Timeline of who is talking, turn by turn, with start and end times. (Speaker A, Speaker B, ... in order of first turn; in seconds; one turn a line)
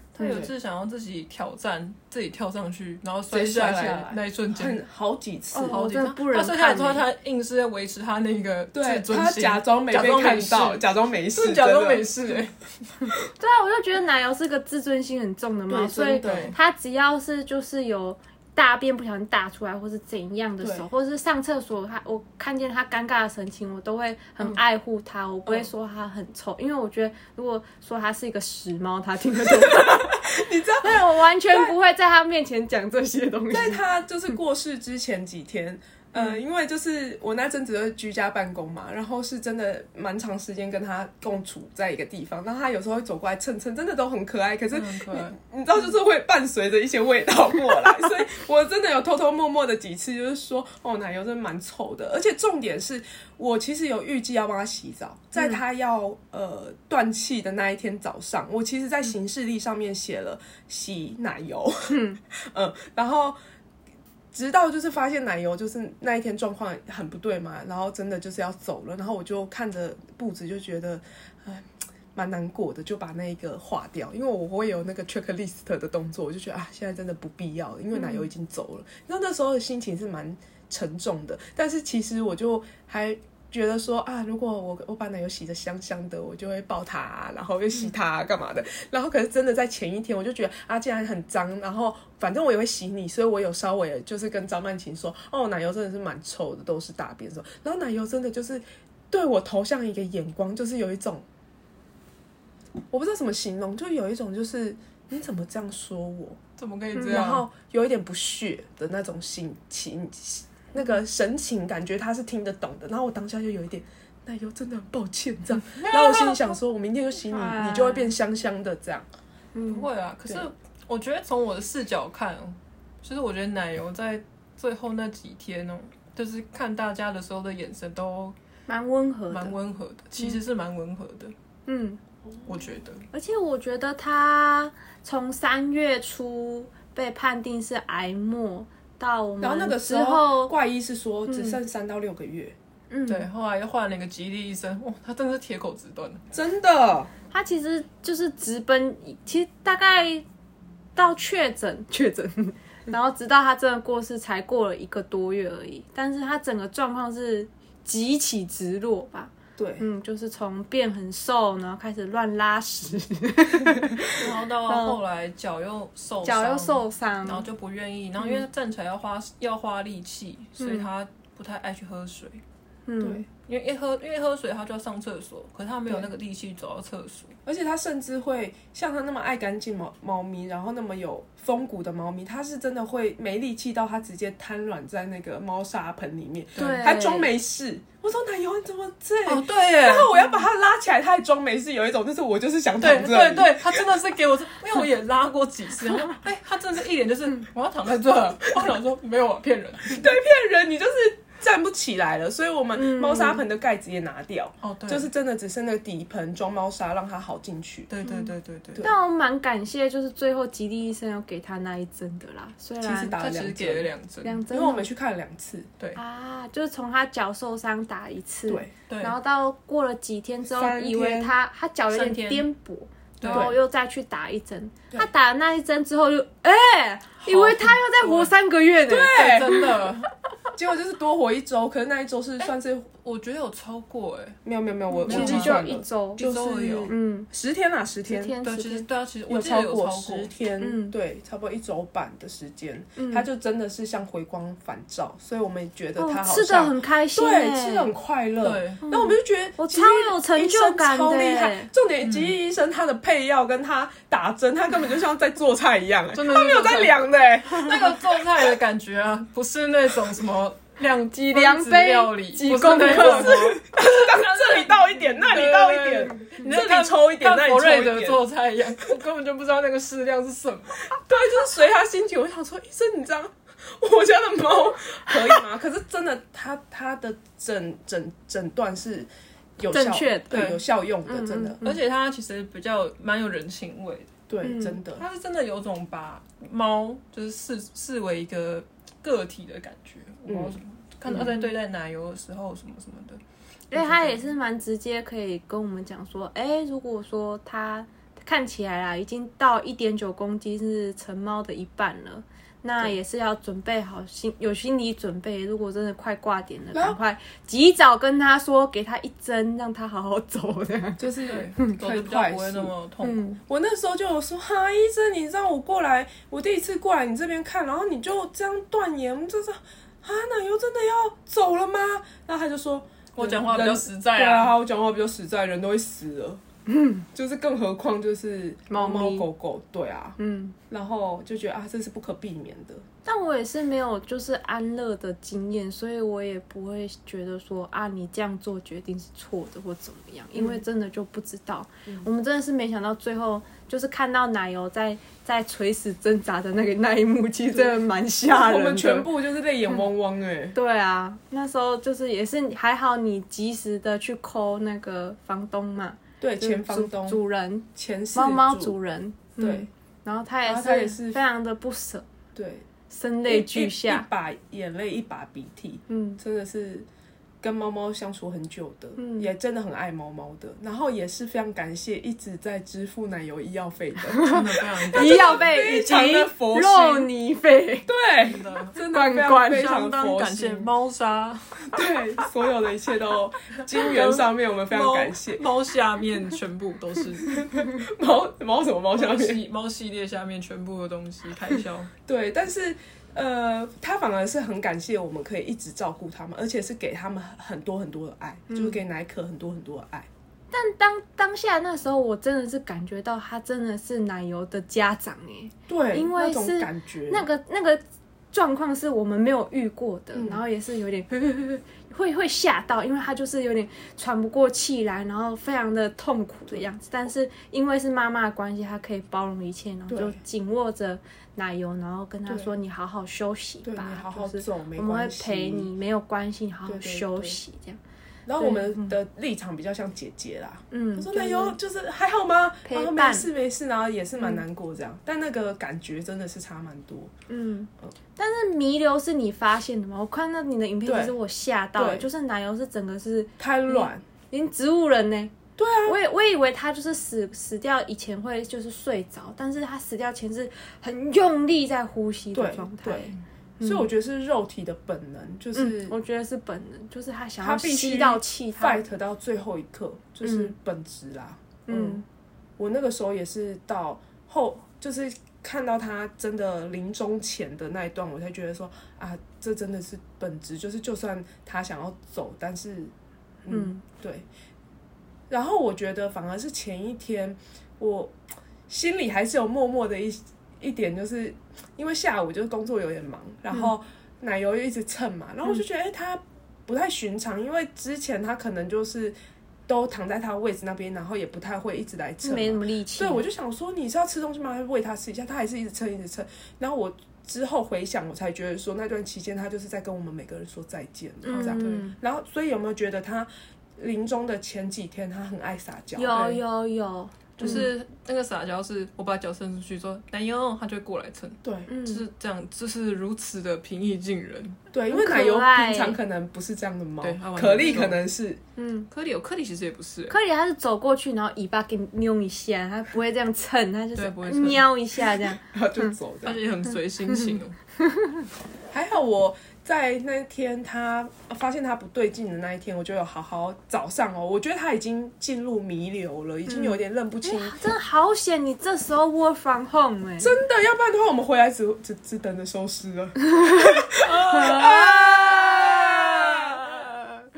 Speaker A: 0.1-4.8
Speaker B: 0.2-0.5
Speaker B: 3.3-5.8
Speaker C: 5.5-7.0
Speaker A: 5.7-12.9
Speaker B: 8.7-12.4
Speaker C: 13.4-33.8
Speaker B: 15.7-16.6
Speaker A: 16.2-16.5
Speaker B: 20.6-20.9
Speaker B: 29.5-31.7
Speaker B: 33.5-63.4
Speaker A: 44.7-45.3
Speaker C: 61.9-62.2
Speaker B: 64.3-101.2
Speaker C: 77.9-78.2
Speaker B: 102.9-106.4
Speaker A: 106.6-107.5
Speaker C: 106.9-107.2
Speaker B: 107.0-119.0
Speaker C: 117.3-118.1
Speaker C: 119.5-119.9
Speaker A: 119.7-128.3
Speaker C: 128.7-129.5
Speaker A: 129.3-131.3
Speaker C: 131.7-132.0
Speaker A: 132.4-133.0
Speaker C: 133.1-140.5
Speaker B: 139.4-142.6
Speaker C: 141.3-141.6
Speaker C: 142.9-143.3
Speaker A: 143.1-146.2
Speaker B: 146.3-147.1
Speaker C: 147.3-150.2
Speaker C: 150.9-165.0
Speaker B: 159.6-159.9
Speaker A: 164.1-172.4
Speaker C: 166.2-167.4
Speaker C: 170.6-170.9
Speaker C: 172.9-173.2
Speaker B: 173.0-173.2
Speaker A: 173.4-177.3
Speaker B: 177.4-193.9
Speaker A: 186.6-186.9
Speaker C: 186.6-187.3
Speaker A: 189.2-190.1
Speaker A: 192.8-200.1
Speaker B: 199.9-207.9
Speaker C: 202.7-203.4
Speaker A: 204.6-205.1
Speaker A: 207.9-208.8
Speaker C: 208.0-213.2
Speaker B: 212.8-213.9
Speaker A: 213.2-214.4
Speaker C: 214.2-214.9
Speaker B: 214.5-215.7
Speaker C: 215.9-229.8
Speaker B: 218.5-218.7
Speaker A: 218.9-219.2
Speaker B: 220.5-221.3
Speaker A: 221.9-222.4
Speaker A: 223.2-223.5
Speaker B: 223.2-223.6
Speaker A: 227.2-228.3
Speaker B: 228.8-229.8
Speaker A: 229.1-230.1
Speaker B: 230.5-232.9
Speaker A: 233.0-234.4
Speaker B: 234.4-238.3
Speaker C: 234.9-236.2
Speaker A: 235.0-235.7
Speaker A: 236.2-236.9
Speaker C: 236.9-237.3
Speaker C: 238.0-238.9
Speaker A: 238.4-240.3
Speaker B: 239.3-258.2
Speaker C: 240.6-240.9
Speaker C: 243.0-243.2
Speaker C: 246.0-247.9
Speaker A: 248.4-248.8
Speaker C: 248.8-251.7
Speaker A: 252.0-252.3
Speaker A: 256.1-263.6
Speaker C: 261.2-263.6
Speaker B: 262.7-268.2
Speaker A: 265.3-270.9
Speaker B: 271.0-281.6
Speaker C: 279.7-280.4
Speaker A: 280.3-280.6
Speaker C: 281.1-281.7
Speaker A: 281.6-284.1
Speaker B: 284.3-285.1
Speaker C: 284.4-284.8
Speaker A: 284.9-293.2
Speaker B: 290.2-290.6
Speaker C: 291.1-291.5
Speaker C: 293.7-311.8
Speaker A: 293.7-294.2
Speaker B: 311.0-312.7
Speaker A: 311.2-313.2
Speaker C: 313.0-313.4
Speaker B: 313.5-326.4
Speaker A: 323.1-324.6
Speaker C: 326.7-327.0
Speaker B: 327.1-330.2
Speaker C: 328.7-329.3
Speaker C: 330.2-330.6
Speaker B: 330.7-332.8
Speaker C: 333.1-349.1
Speaker B: 340.4-340.6
Speaker B: 347.5-350.6
Speaker C: 350.5-362.1
Speaker B: 356.2-357.2
Speaker B: 357.7-358.8
Speaker B: 359.4-359.7
Speaker B: 360.4-361.2
Speaker B: 362.3-362.6
Speaker C: 362.9-364.1
Speaker B: 363.2-366.9
Speaker C: 365.9-366.2
Speaker B: 367.4-377.1
Speaker C: 369.0-369.3
Speaker C: 374.1-377.9
Speaker A: 374.2-375.5
Speaker B: 377.9-380.7
Speaker A: 378.2-378.8
Speaker C: 378.9-379.7
Speaker A: 379.4-381.8
Speaker B: 381.7-385.4
Speaker A: 383.8-387.4
Speaker B: 387.3-389.4
Speaker A: 388.9-391.9
Speaker B: 392.1-400.1
Speaker C: 398.5-398.8
Speaker C: 400.5-407.8
Speaker B: 405.7-407.3
Speaker C: 408.3-427.8
Speaker B: 410.1-410.4
Speaker B: 419.9-420.2
Speaker B: 423.6-425.7
Speaker B: 426.7-427.4
Speaker B: 428.2-437.1
Speaker C: 428.4-428.9
Speaker C: 430.7-431.6
Speaker C: 432.6-433.3
Speaker C: 434.1-434.4
Speaker C: 437.3-445.3
Speaker B: 440.8-441.1
Speaker B: 441.8-442.1
Speaker B: 443.4-444.0
Speaker B: 445.6-446.0
Speaker C: 445.8-453.9
Speaker B: 452.3-455.9
Speaker C: 455.5-458.8
Speaker B: 457.4-462.0
Speaker C: 460.2-460.5
Speaker C: 461.7-462.0
Speaker B: 462.6-472.9
Speaker B: 473.4-474.2
Speaker C: 473.5-473.8
Speaker B: 475.3-478.1
Speaker B: 478.7-489.1
Speaker B: 489.7-506.4
Speaker C: 492.2-493.2
Speaker C: 501.2-502.0
Speaker A: 501.3-501.6
Speaker C: 505.9-507.7
Speaker B: 507.4-507.6
Speaker A: 507.4-514.6
Speaker B: 511.4-511.7
Speaker C: 511.7-512.0
Speaker B: 514.7-518.4
Speaker C: 514.9-516.0
Speaker A: 517.0-518.0
Speaker C: 518.6-518.9
Speaker A: 518.9-520.1
Speaker C: 520.1-525.9
Speaker A: 523.9-524.7
Speaker B: 525.2-526.4
Speaker A: 526.2-527.5
Speaker C: 527.1-528.2
Speaker B: 528.7-537.6
Speaker C: 536.5-540.4
Speaker B: 540.2-546.8
Speaker C: 544.1-546.0